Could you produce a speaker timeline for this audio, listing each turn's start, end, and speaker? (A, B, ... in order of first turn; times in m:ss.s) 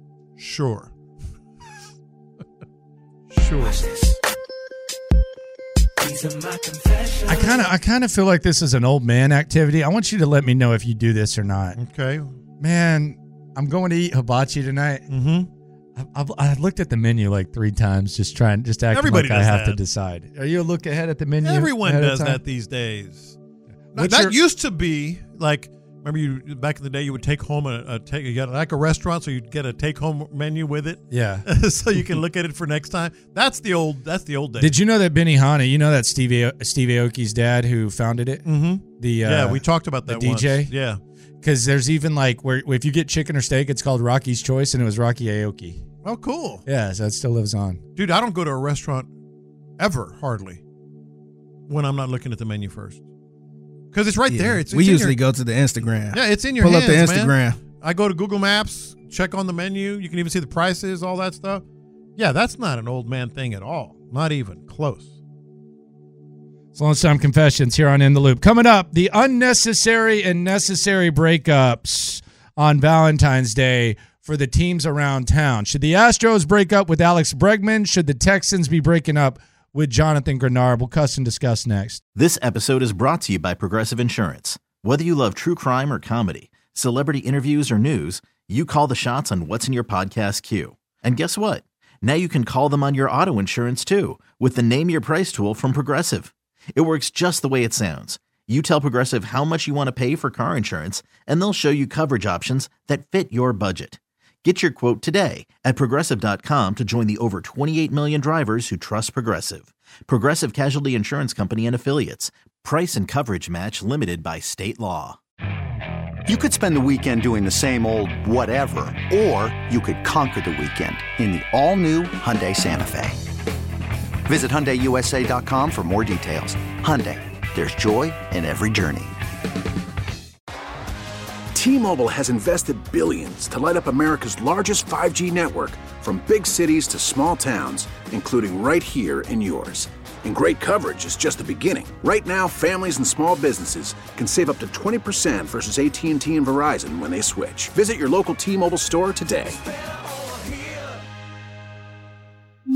0:00.4-0:00.9 A
0:03.3-0:03.9 A
0:07.3-0:11.8 B
0:11.8-0:12.3 A
0:12.6-0:15.0 B
0:15.1-0:15.5 A
0:16.0-0:22.4 B
0:18.9-0:19.8 A
0:21.4-0:23.4 A
0:23.9-0:24.4 B
0:23.9-0:34.8 A
0:31.1-0:31.5 B
0:34.6-0:38.5 B
0:38.4-0:41.0 A
0:39.0-0:40.7 B
0:41.4-0:45.8 B
0:46.0-0:46.6 A
0:46.7-0:47.8 B
0:48.0-0:49.1 A
0:49.8-0:50.6 A
0:51.7-0:53.0 A
0:53.9-0:55.2 A
0:54.3-0:57.6 C
0:56.1-1:01.6 A
1:02.2-1:05.1 A
1:06.8-1:22.0 B
1:22.2-1:55.2 D
1:56.3-2:03.2 E
2:04.3-2:09.2 E
2:11.5-2:29.6 F